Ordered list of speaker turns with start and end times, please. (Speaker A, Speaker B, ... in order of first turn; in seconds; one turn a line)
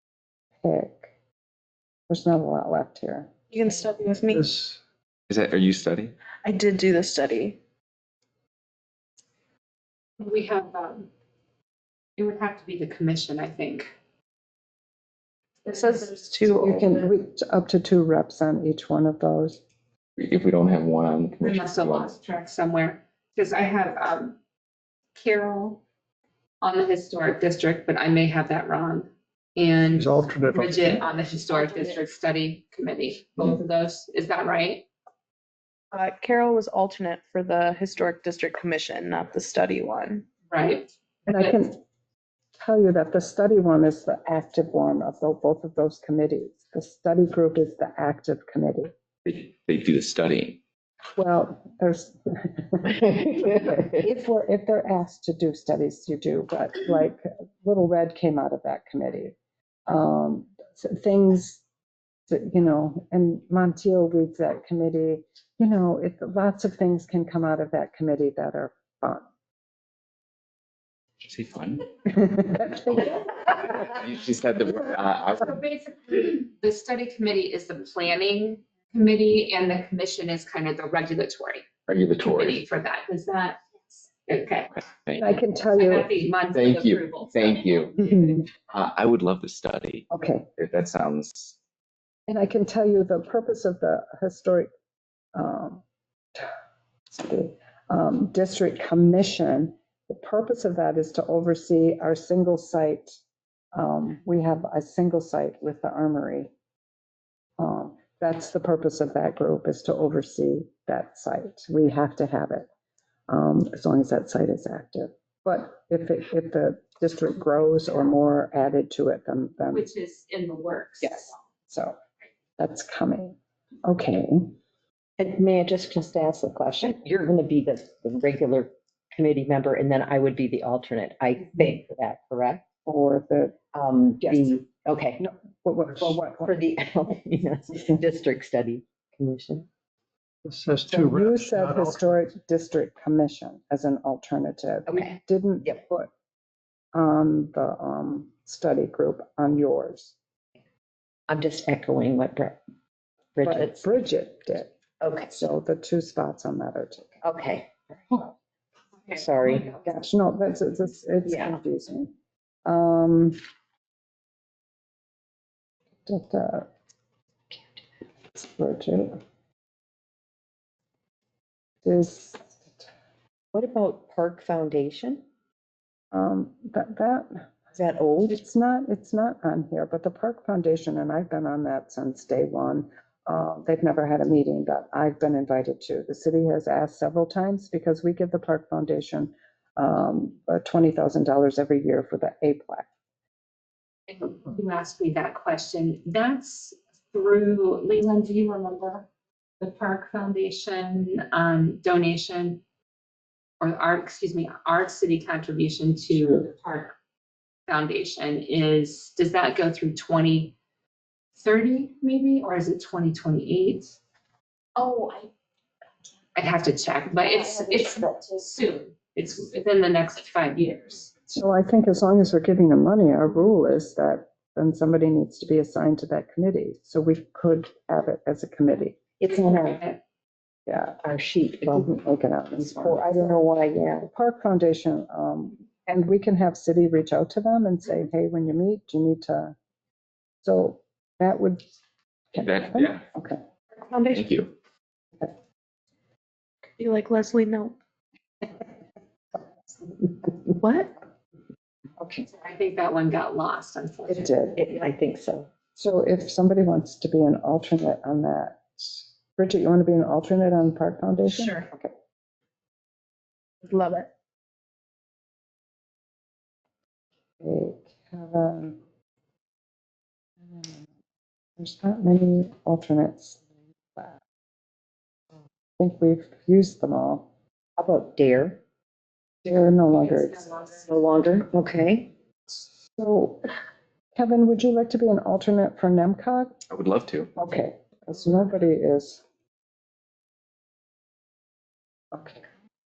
Speaker A: 0.6-1.1
Speaker A: 2.1-3.3
Speaker B: 3.5-4.5
Speaker C: 4.3-4.7
Speaker D: 5.3-6.1
Speaker B: 6.4-7.6
Speaker E: 10.2-11.1
Speaker E: 12.2-13.9
Speaker B: 15.6-17.1
Speaker A: 16.5-19.6
Speaker D: 20.2-22.1
Speaker E: 21.4-24.4
Speaker E: 25.1-25.8
Speaker E: 26.6-34.9
Speaker C: 30.0-30.8
Speaker B: 35.9-40.2
Speaker E: 40.5-41.5
Speaker A: 41.3-41.8
Speaker A: 42.6-48.9
Speaker D: 49.2-50.6
Speaker A: 51.2-52.9
Speaker F: 53.0-54.0
Speaker A: 54.0-59.4
Speaker A: 59.9-61.6
Speaker A: 62.3-69.2
Speaker D: 71.2-71.8
Speaker A: 72.1-73.9
Speaker D: 73.7-75.6
Speaker E: 75.4-87.8
Speaker D: 81.9-82.6
Speaker D: 84.9-85.2
Speaker A: 85.2-86.1
Speaker D: 86.5-91.6
Speaker A: 88.1-88.4
Speaker A: 90.1-90.5
Speaker A: 92.3-94.7
Speaker A: 95.3-95.8
Speaker A: 97.1-103.2
Speaker A: 103.7-106.5
Speaker A: 107.6-112.7
Speaker A: 113.3-119.8
Speaker E: 119.7-121.4
Speaker A: 121.0-122.0
Speaker A: 122.6-124.5
Speaker F: 125.2-132.6
Speaker A: 132.8-133.6
Speaker F: 133.7-135.2
Speaker A: 134.2-134.5
Speaker A: 135.2-136.5
Speaker F: 136.0-139.7
Speaker C: 140.5-142.0
Speaker A: 140.9-146.1
Speaker F: 144.9-145.8
Speaker A: 146.9-150.2
Speaker F: 151.3-152.6
Speaker F: 153.3-154.0
Speaker A: 153.4-154.7
Speaker F: 155.0-155.3
Speaker A: 155.3-157.2
Speaker F: 157.2-158.3
Speaker E: 159.1-159.8
Speaker F: 159.1-159.8
Speaker A: 159.8-162.1
Speaker F: 161.2-161.6
Speaker A: 162.7-163.4
Speaker A: 166.1-166.7
Speaker A: 168.3-169.2
Speaker A: 171.8-172.8
Speaker F: 173.5-175.2
Speaker A: 176.1-177.4
Speaker F: 177.7-178.4
Speaker A: 178.2-192.9
Speaker E: 194.1-199.1
Speaker E: 199.6-202.6
Speaker E: 203.6-206.9
Speaker E: 207.7-210.6
Speaker E: 211.3-214.0
Speaker E: 216.3-221.1
Speaker A: 221.3-229.0
Speaker F: 229.2-229.8
Speaker E: 229.2-230.0
Speaker A: 230.7-231.0
Speaker F: 231.0-232.0
Speaker A: 231.7-233.4
Speaker F: 232.6-234.1
Speaker A: 234.0-239.6
Speaker A: 240.4-241.6
Speaker A: 242.3-243.4
Speaker D: 242.4-243.1
Speaker F: 243.8-244.2
Speaker D: 244.1-244.5
Speaker B: 246.8-247.8
Speaker B: 250.6-250.9
Speaker A: 252.0-252.2
Speaker E: 252.2-254.3
Speaker A: 254.1-254.6
Speaker F: 254.5-255.5
Speaker A: 255.7-261.9
Speaker B: 261.3-261.6
Speaker B: 263.6-264.1
Speaker A: 267.4-268.8
Speaker A: 270.5-270.9
Speaker A: 271.6-274.2
Speaker A: 275.8-277.3
Speaker F: 277.8-278.6
Speaker A: 279.4-280.8
Speaker F: 280.8-282.1
Speaker A: 282.9-283.5
Speaker A: 284.1-286.6
Speaker D: 286.7-287.3
Speaker A: 287.4-289.2
Speaker A: 292.1-292.4